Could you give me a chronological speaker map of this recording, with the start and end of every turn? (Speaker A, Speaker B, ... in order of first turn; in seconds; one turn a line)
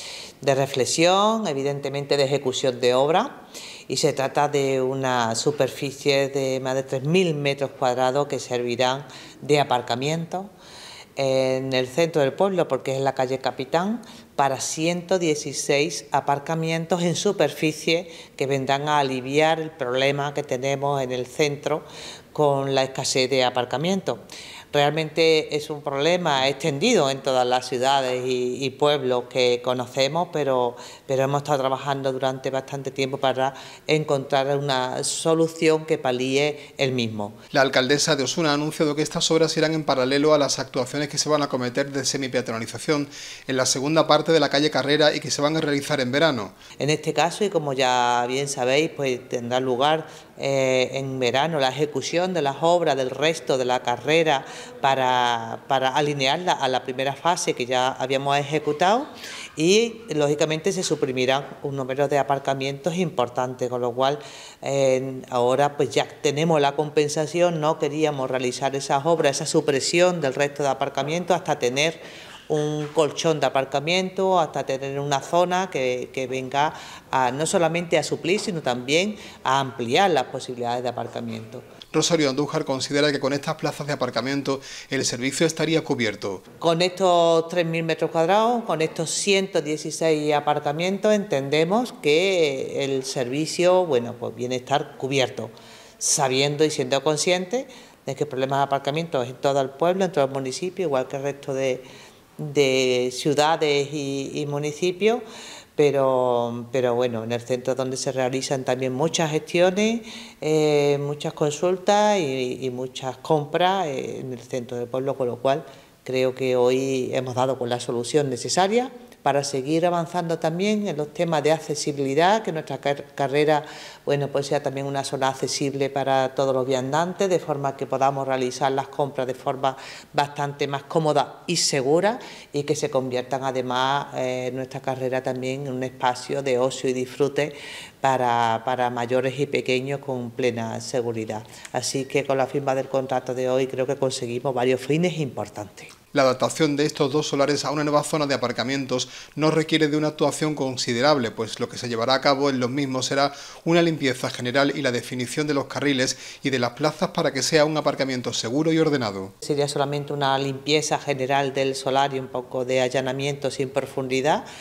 Speaker A: 0.4-10.5
Speaker A: 11.2-37.4
Speaker B: 37.5-46.5
Speaker A: 46.8-81.7
Speaker B: 81.9-86.4
Speaker A: 86.6-101.8
Speaker A: 102.4-105.2
Speaker A: 105.8-145.9
Speaker B: 146.1-159.3
Speaker A: 159.4-164.4